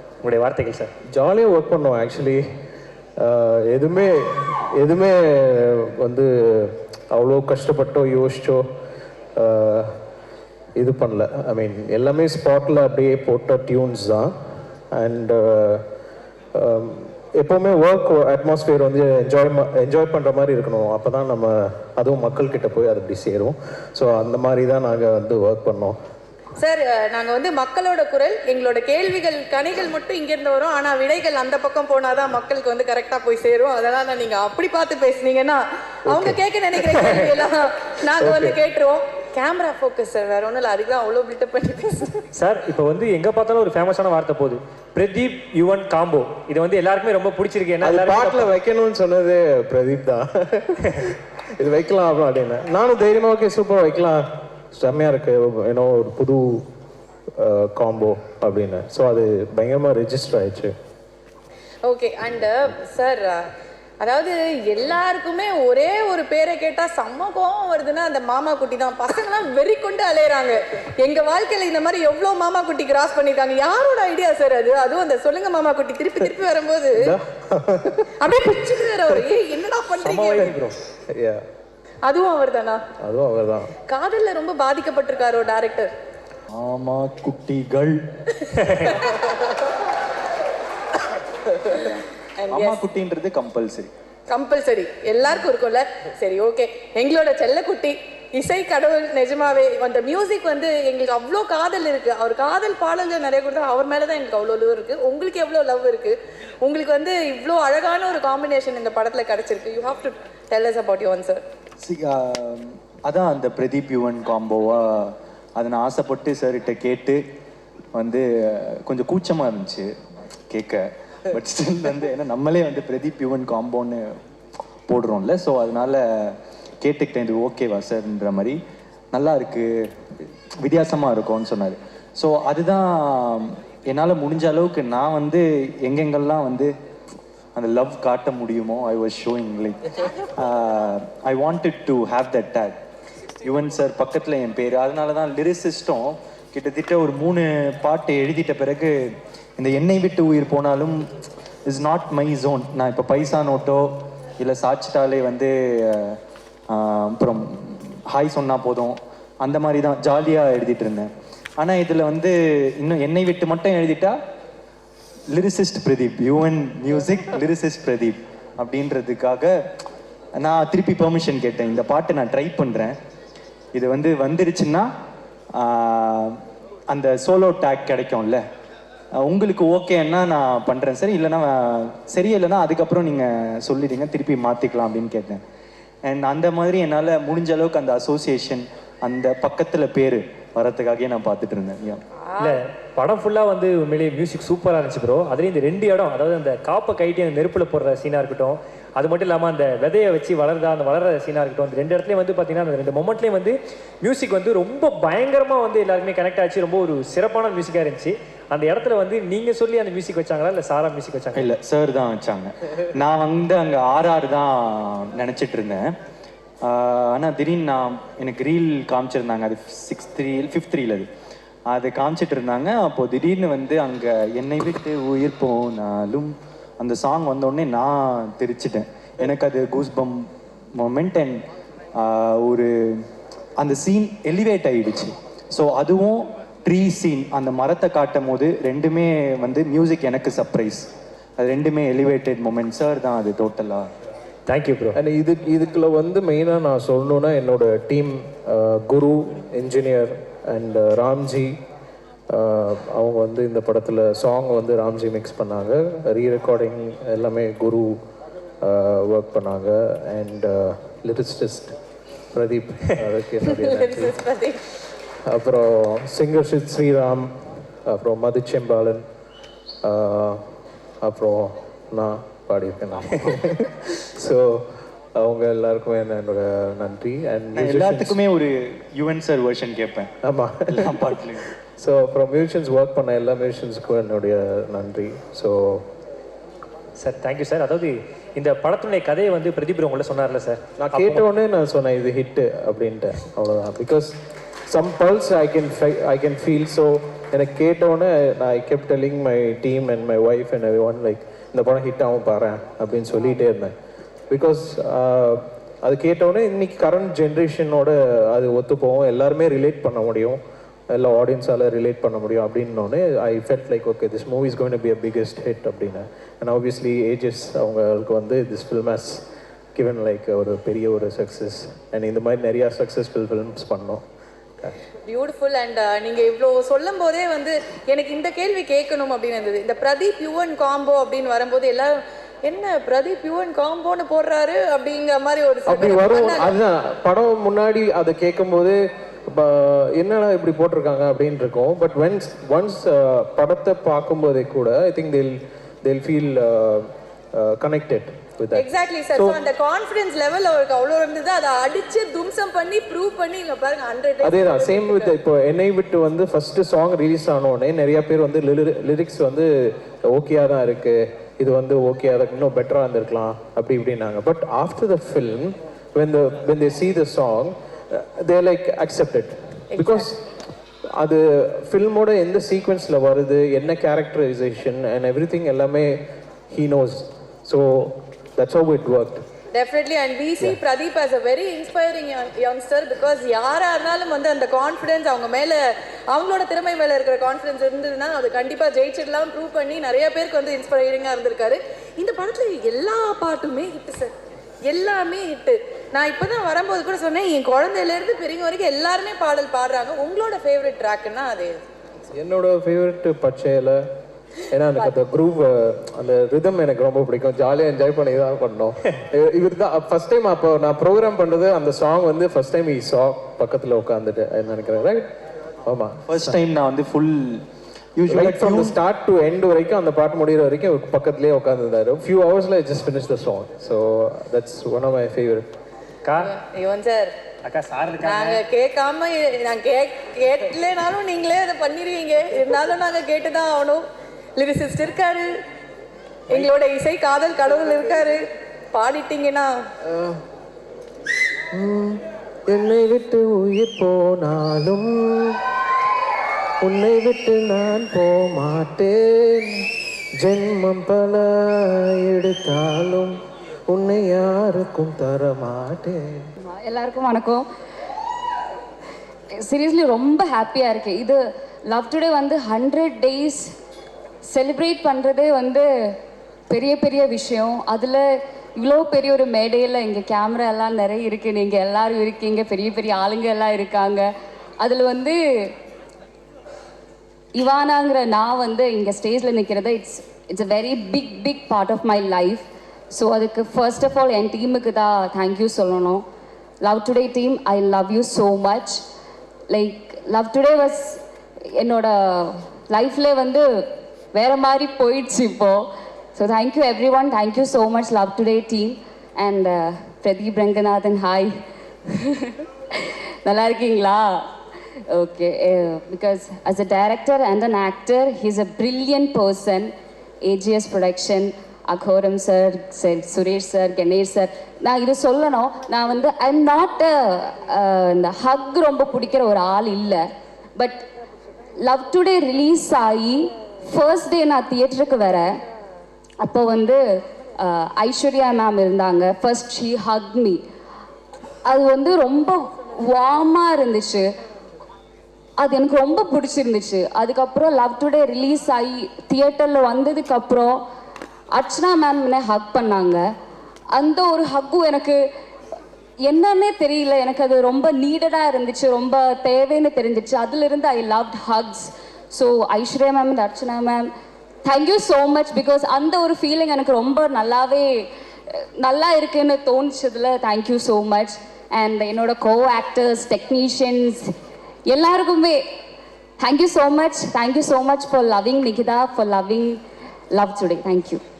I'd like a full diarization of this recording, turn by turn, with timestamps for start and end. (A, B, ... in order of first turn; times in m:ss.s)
0:00.2-0:00.9 A
0:01.1-0:02.4 B
0:03.2-0:08.6 B
0:09.4-0:09.9 B
0:10.8-0:14.3 B
0:14.9-0:15.8 B
0:16.6-0:26.0 B
0:26.6-0:42.3 C
0:36.1-0:36.4 B
0:37.0-0:37.2 A
0:38.2-0:38.6 B
0:42.3-0:48.5 A
0:47.8-0:56.6 B
0:57.4-1:00.7 B
1:01.8-1:03.4 C
1:04.0-1:17.1 C
1:17.0-1:18.1 B
1:18.2-1:20.6 C
1:20.0-1:20.8 A
1:22.0-1:22.8 C
1:23.0-1:23.7 B
1:23.9-1:25.9 C
1:26.5-1:28.0 D
1:28.4-1:29.5 C
1:28.5-1:28.9 A
1:31.6-1:32.8 C
1:32.5-1:33.9 D
1:34.3-1:51.4 C
1:51.8-1:57.2 D
1:57.9-1:59.9 D
2:00.5-2:04.2 D
2:04.9-2:08.6 D
2:09.1-2:16.7 D
2:17.6-2:22.8 D
2:23.4-2:29.0 D
2:29.6-2:31.0 D
2:31.7-2:36.2 D
2:36.7-2:44.2 D
2:45.3-2:49.6 D
2:50.4-2:53.0 D
2:53.7-2:54.9 D
2:55.6-2:56.4 D
2:56.9-2:58.4 D
2:59.2-3:05.4 D
3:06.0-3:12.0 D
3:12.2-3:12.6 C
3:12.4-3:31.5 A
3:31.4-3:35.9 D
3:36.6-3:41.1 D
3:41.7-3:51.4 D
3:52.0-3:53.1 D
3:53.6-4:03.9 D
4:04.5-4:05.0 A
4:04.9-4:11.6 B
4:12.3-4:18.0 B
4:18.6-4:21.8 B
4:22.3-4:24.2 B
4:23.4-4:24.6 C
4:25.3-4:27.3 B
4:27.9-4:29.0 B
4:29.8-4:30.4 B
4:31.0-4:34.7 B
4:35.2-4:38.2 B
4:37.5-4:40.1 D
4:40.2-4:41.1 B
4:40.7-4:41.5 D
4:41.8-4:45.9 B
4:47.0-4:51.2 A
4:50.8-4:54.1 B
4:54.7-5:03.7 B
5:04.3-5:19.2 B
5:19.8-5:24.0 B
5:25.1-5:31.9 C
5:32.4-5:36.5 C
5:35.7-5:49.4 B
5:48.5-5:55.1 C
5:54.2-5:59.5 B
6:00.1-6:10.2 B
6:09.7-6:10.0 C
6:11.0-6:19.2 B
6:19.5-6:25.6 C
6:26.1-6:34.1 C
6:34.7-6:41.6 C
6:42.1-6:43.8 B
6:44.5-6:55.1 B
6:55.7-6:56.4 B
6:56.1-6:57.4 D
6:58.0-6:58.8 D
6:58.1-7:05.5 B
7:06.0-7:06.3 A
7:06.2-7:07.1 C
7:07.4-7:08.4 A
7:08.0-7:13.8 C
7:14.4-7:15.3 C
7:16.3-7:18.2 C
7:18.7-7:19.5 C
7:19.9-7:20.2 B
7:21.5-7:25.4 B
7:26.6-7:29.7 B
7:30.2-7:33.2 B
7:33.7-7:36.2 B
7:36.5-7:37.5 E
7:39.4-7:43.5 E
7:44.2-7:46.0 E
7:46.5-7:54.1 E
7:54.6-7:55.5 E
7:57.4-8:06.0 E
8:06.6-8:08.8 E
8:09.5-8:11.0 E
8:11.6-8:21.3 E
8:21.9-8:24.3 E
8:24.9-8:29.7 E
8:30.2-8:40.1 E
8:40.6-8:40.8 E
8:41.6-8:45.3 E
8:46.2-8:46.8 E
8:47.4-8:50.4 E
8:51.4-8:54.1 E
8:55.4-9:00.6 E
9:01.3-9:03.0 E
9:03.7-9:05.0 E
9:06.0-9:13.9 E
9:14.4-9:24.1 E
9:24.7-9:25.4 E
9:26.2-9:29.6 E
9:30.1-9:31.0 E